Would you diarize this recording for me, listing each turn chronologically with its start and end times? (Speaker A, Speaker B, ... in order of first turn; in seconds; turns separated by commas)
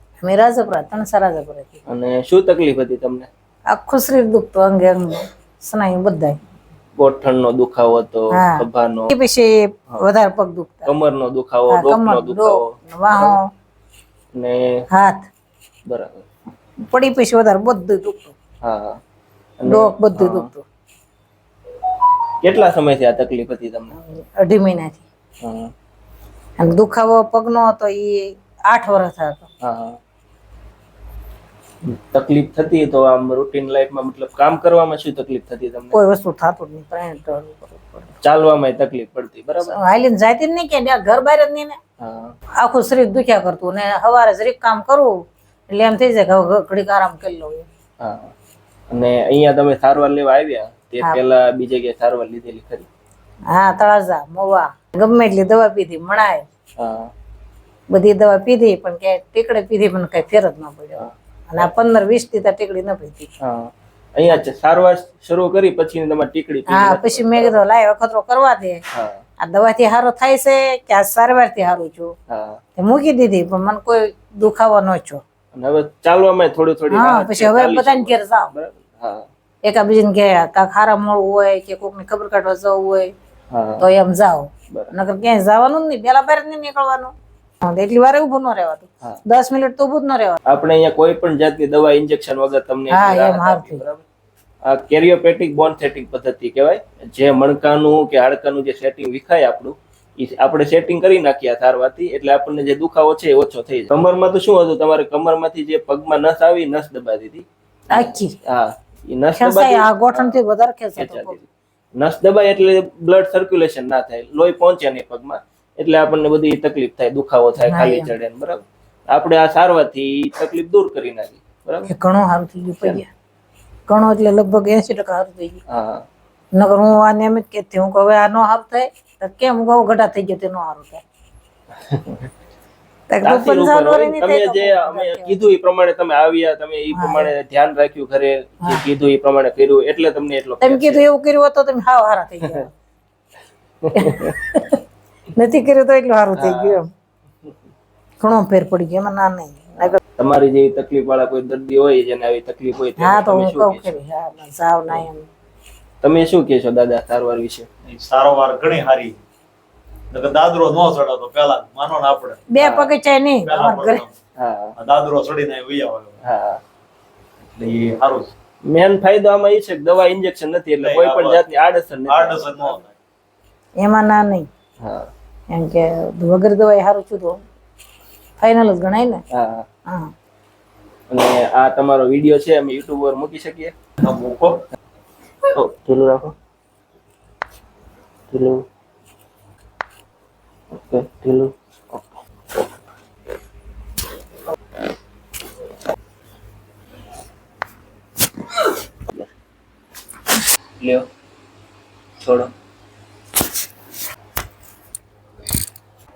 Speaker A: 0.2-1.8, Speaker B: 1.9-3.3, Speaker A: 3.7-6.4, Speaker B: 7.0-9.1, Speaker A: 8.3-10.9, Speaker B: 10.9-13.4, Speaker A: 11.7-13.4, Speaker B: 14.3-14.8, Speaker A: 14.9-15.3, Speaker B: 15.9-16.2, Speaker A: 16.8-18.3, Speaker B: 18.6-19.0, Speaker B: 19.6-20.5, Speaker A: 19.7-20.6, Speaker B: 22.4-23.9, Speaker A: 23.9-25.1, Speaker B: 25.4-25.7, Speaker A: 26.6-29.5, Speaker B: 29.6-30.0, Speaker B: 31.8-36.0, Speaker A: 35.9-38.2, Speaker B: 38.2-39.8, Speaker A: 39.7-41.8, Speaker B: 42.0-42.3, Speaker A: 42.6-45.1, Speaker A: 45.7-47.7, Speaker B: 48.0-48.3, Speaker B: 48.9-52.9, Speaker A: 53.5-56.5, Speaker B: 56.8-57.1, Speaker A: 57.9-63.3, Speaker B: 61.0-61.7, Speaker B: 63.4-67.6, Speaker A: 66.7-68.8, Speaker B: 68.9-69.2, Speaker A: 69.4-72.1, Speaker B: 72.3-72.6, Speaker A: 72.8-75.2, Speaker B: 75.5-79.3, Speaker A: 76.9-78.5, Speaker A: 79.6-83.1, Speaker B: 83.5-83.8, Speaker A: 83.8-90.4, Speaker B: 90.5-94.0, Speaker A: 92.9-93.8, Speaker B: 94.7-110.4, Speaker A: 107.9-108.3, Speaker A: 109.4-111.4, Speaker B: 111.0-121.9, Speaker A: 117.7-118.1, Speaker A: 121.9-123.1, Speaker A: 123.9-125.6, Speaker B: 125.7-126.1, Speaker A: 126.5-131.0, Speaker B: 131.8-132.3, Speaker A: 133.1-135.4, Speaker B: 133.2-141.0, Speaker A: 136.9-137.3, Speaker A: 140.6-142.7, Speaker B: 143.8-144.4, Speaker A: 143.9-144.8, Speaker A: 145.3-146.9, Speaker B: 146.3-146.8, Speaker A: 148.2-150.0, Speaker B: 149.8-154.0, Speaker A: 153.0-155.3, Speaker B: 156.0-157.7, Speaker C: 157.9-159.2, Speaker C: 160.1-162.4, Speaker A: 162.5-164.0, Speaker B: 162.6-162.9, Speaker C: 163.4-164.1, Speaker B: 164.4-164.8, Speaker C: 164.8-166.2, Speaker B: 166.2-166.6, Speaker C: 167.5-168.3, Speaker B: 168.7-172.8, Speaker C: 170.8-171.4, Speaker C: 172.1-172.9, Speaker A: 173.8-174.5, Speaker B: 174.8-175.1, Speaker A: 175.5-177.4, Speaker A: 178.4-179.2, Speaker B: 179.3-179.7, Speaker A: 179.9-180.1, Speaker B: 181.1-183.8, Speaker C: 184.0-184.6, Speaker B: 185.5-186.3, Speaker B: 188.3-188.6, Speaker B: 190.7-192.1, Speaker B: 200.8-201.1, Speaker B: 202.2-202.5